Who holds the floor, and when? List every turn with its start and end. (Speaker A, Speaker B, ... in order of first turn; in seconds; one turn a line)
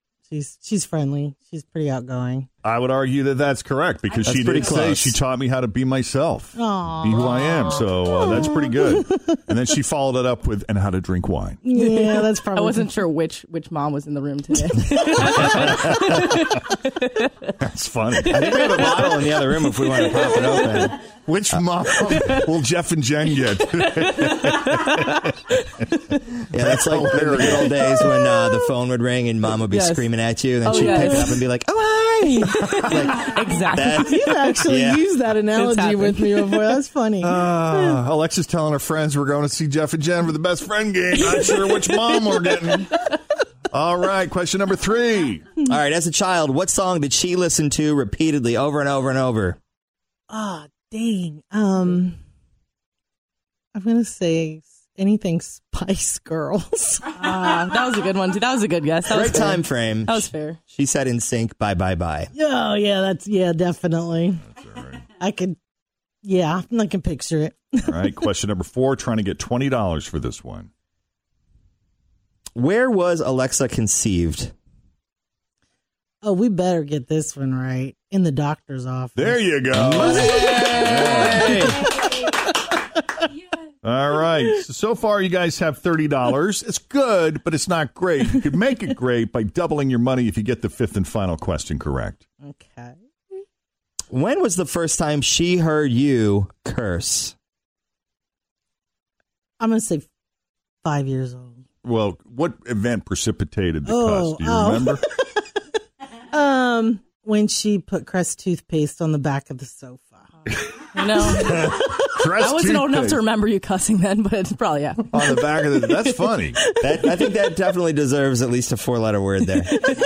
Speaker A: 0.3-2.5
Speaker B: 2.6-11.6
Speaker C: 4.2-5.2
Speaker A: 6.5-9.3
Speaker A: 11.6-12.9
Speaker D: 11.7-17.3
Speaker B: 17.6-19.3
Speaker C: 18.3-21.0
Speaker D: 18.4-19.0
Speaker D: 19.8-20.9
Speaker B: 21.2-25.2
Speaker D: 22.1-22.4
Speaker D: 23.9-25.3
Speaker C: 26.5-35.0
Speaker B: 26.5-28.0
Speaker D: 29.7-30.1
Speaker D: 30.6-31.4
Speaker D: 32.5-34.2
Speaker A: 34.0-38.0
Speaker D: 35.5-36.7
Speaker B: 37.2-43.1
Speaker B: 43.7-45.5
Speaker C: 45.6-49.6
Speaker A: 50.3-52.2
Speaker A: 53.7-57.2
Speaker D: 57.1-60.6
Speaker C: 59.0-62.3
Speaker A: 62.3-64.4
Speaker B: 64.4-65.0
Speaker A: 65.2-65.5
Speaker A: 66.2-68.2
Speaker B: 67.8-70.7
Speaker C: 72.5-74.5
Speaker A: 76.2-80.0
Speaker B: 79.1-82.3
Speaker A: 80.9-81.2
Speaker B: 83.8-92.2
Speaker A: 92.4-93.0
Speaker C: 94.1-97.3
Speaker A: 99.6-100.1
Speaker A: 100.8-101.6
Speaker B: 101.8-105.0
Speaker A: 103.8-105.0
Speaker A: 106.3-110.3
Speaker D: 110.9-115.7
Speaker B: 111.7-113.2
Speaker B: 115.1-116.6
Speaker C: 116.8-119.7